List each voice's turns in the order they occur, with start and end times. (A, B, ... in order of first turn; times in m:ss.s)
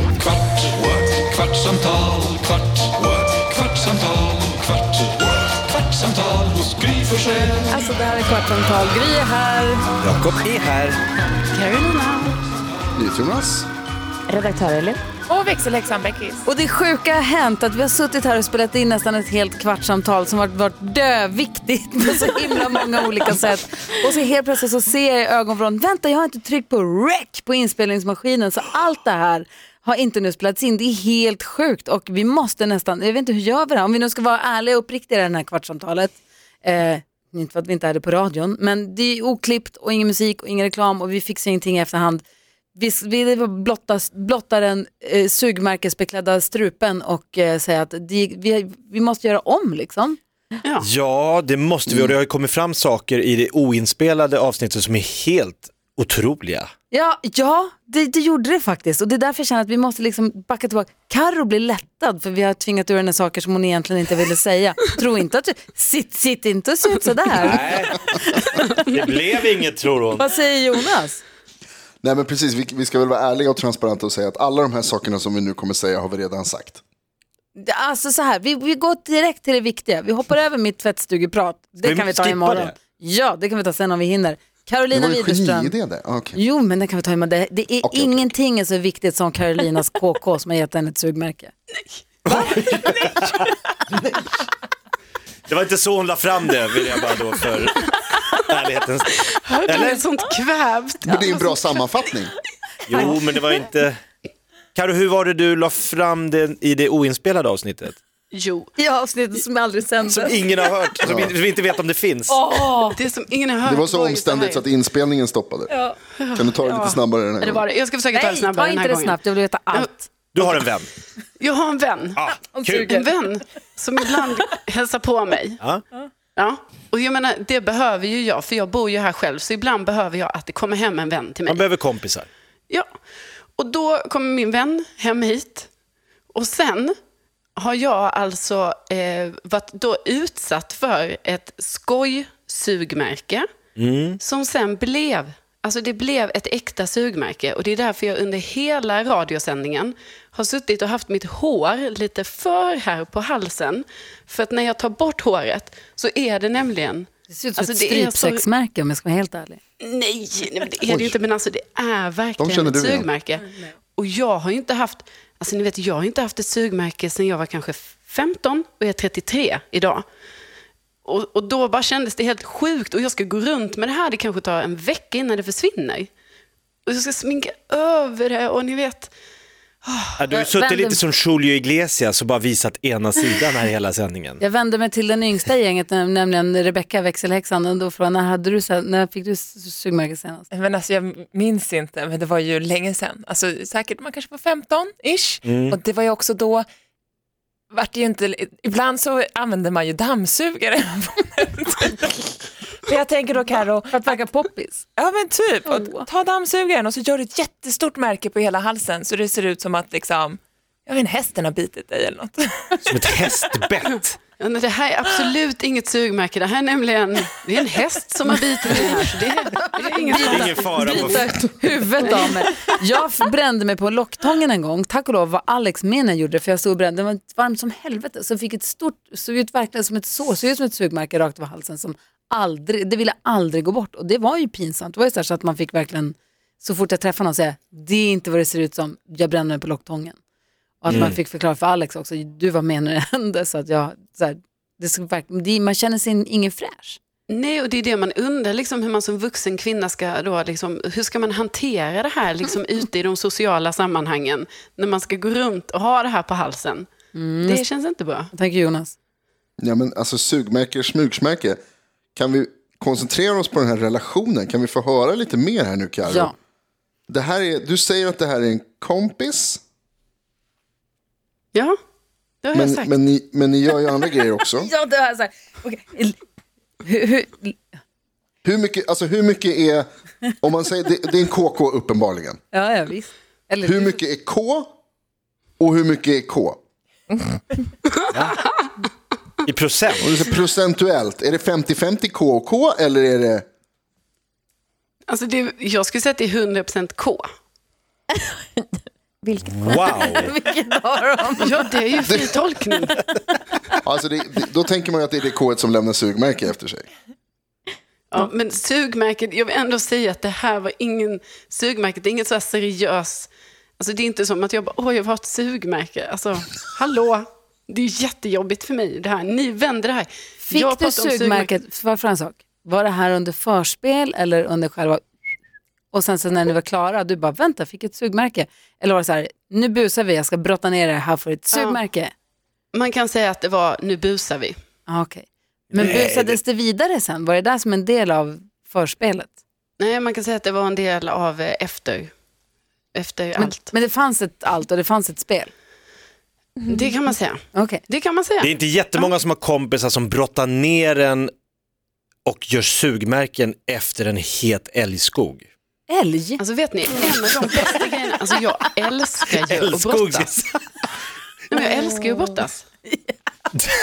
0:00.9-0:02.7 A
0:04.0-0:04.4 B
0:06.0-0:07.1 A
0:07.7-0:09.8 C
0:10.0-0:11.0 B
0:11.5-0:12.4 D
0:13.0-0:13.7 E
0:14.3-0:16.4 F
0:16.4-0:42.2 C
0:42.8-0:50.2 C
0:50.6-0:50.9 D
0:50.8-0:56.7 B
0:51.9-0:52.2 E
0:56.9-1:08.8 C
1:07.3-1:08.0 B
1:08.9-1:10.2 B
1:10.2-1:11.2 C
1:12.0-1:16.8 E
1:17.6-1:25.8 C
1:21.8-1:22.8 B
1:24.9-1:26.4 E
1:26.3-1:31.5 C
1:27.8-1:28.3 E
1:32.3-1:33.5 B
1:35.5-1:40.0 B
1:39.2-1:41.9 D
1:41.1-1:42.3 E
1:42.9-1:44.0 B
1:44.8-1:48.0 B
1:48.3-1:48.7 D
1:48.8-1:50.5 C
1:50.1-1:52.4 B
1:51.0-1:51.4 E
1:52.3-1:53.0 C
1:52.9-1:54.7 D
1:53.6-1:55.7 E
1:55.7-1:56.0 C
1:56.2-1:59.2 D
1:56.4-1:57.6 E
1:58.1-2:00.1 C
1:59.7-2:00.6 D
2:00.3-2:00.9 B
2:01.4-2:05.6 D
2:02.2-2:02.9 B
2:02.5-2:03.1 C
2:06.4-2:11.7 D
2:11.5-2:12.3 B
2:13.6-2:15.7 D
2:16.3-2:16.9 D
2:17.6-2:23.4 D
2:23.8-2:24.2 B
2:24.2-2:38.4 D
2:37.3-2:39.6 C
2:39.8-2:50.0 D
2:40.9-2:41.2 E
2:42.4-2:43.1 E
2:51.0-2:56.1 D
2:56.9-2:59.1 D
2:59.9-3:00.2 D
3:00.2-3:04.4 B
3:00.3-3:01.0 C
3:04.4-3:10.5 C
3:10.5-3:16.6 F
3:15.4-3:15.8 B
3:17.7-3:24.2 F
3:23.9-3:24.9 C
3:25.0-3:33.1 F
3:25.7-3:26.1 C
3:32.9-3:34.2 B
3:34.4-3:41.3 D
3:39.6-4:00.2 C
3:40.3-3:41.4 B
3:42.0-3:42.5 D
4:00.8-4:07.0 C
4:00.9-4:01.2 B
4:07.3-4:16.9 D
4:17.1-4:17.6 C
4:17.4-4:18.3 D
4:18.3-4:19.0 C
4:19.6-4:21.6 E
4:22.2-4:26.3 E
4:26.0-4:26.3 C
4:27.1-4:29.6 E
4:32.4-4:32.9 D
4:32.5-4:34.7 E
4:34.6-4:36.2 C
4:36.8-4:37.6 C
4:38.4-4:39.9 E
4:40.4-4:42.4 E
4:42.5-4:44.0 C
4:43.6-4:44.7 E
4:45.6-4:46.6 E
4:48.1-4:48.4 B
4:49.4-4:50.0 B
4:50.0-4:53.4 E
4:55.1-4:57.3 D
4:59.2-5:02.0 C
4:59.5-5:00.3 B
5:01.4-5:03.0 D
5:03.8-5:06.9 E
5:08.1-5:21.6 D
5:20.5-5:25.0 C
5:25.9-5:32.1 C
5:31.5-5:31.8 D
5:32.7-5:34.6 D
5:34.9-5:39.4 C
5:35.7-5:36.4 B
5:39.8-5:42.1 D
5:42.9-5:43.7 D
5:43.4-5:45.5 C
5:46.7-5:48.5 D
5:47.6-5:47.8 C
5:48.4-5:51.3 B
5:52.3-5:55.5 B
5:55.9-5:56.4 C
5:56.4-6:00.3 D
5:59.3-6:00.6 B
6:01.5-6:02.6 D
6:01.5-6:02.4 C